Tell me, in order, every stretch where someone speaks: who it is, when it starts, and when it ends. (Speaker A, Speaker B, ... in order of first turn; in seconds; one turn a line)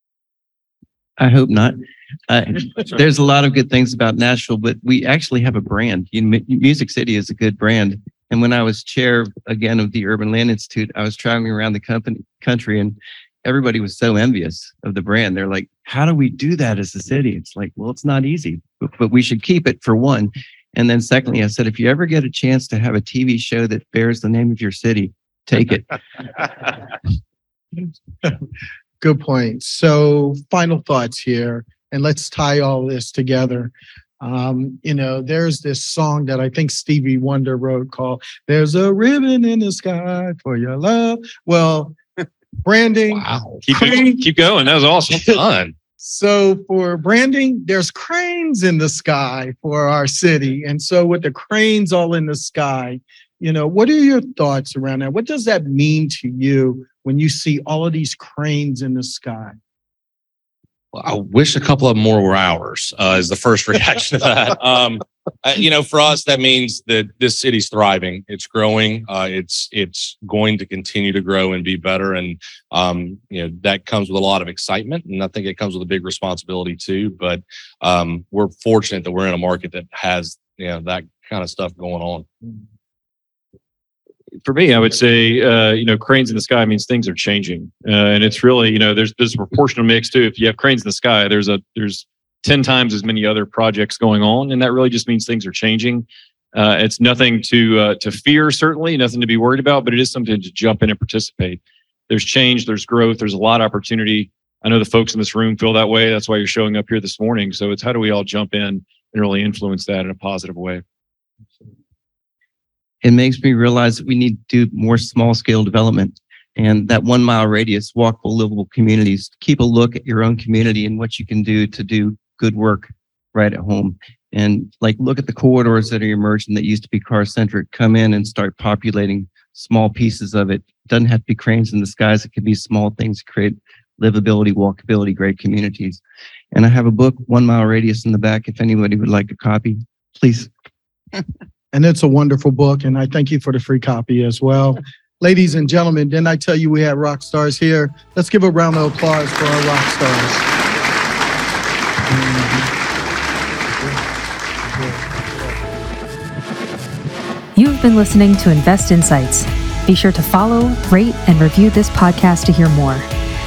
Speaker A: 1.2-25.9
Speaker B: 29.0-42.0
Speaker B: 42.6-44.3
Speaker C: 43.1-44.0
Speaker D: 43.6-45.4
Speaker C: 45.1-45.8
Speaker B: 46.0-59.6
Speaker C: 60.9-82.3
Speaker D: 84.4-110.8
Speaker A: 113.0-136.0
Speaker A: 136.5-140.5
Speaker B: 141.7-150.5
Speaker B: 152.1-152.7
Speaker B: 153.8-154.0
Speaker B: 154.6-155.6
Speaker E: 157.6-163.1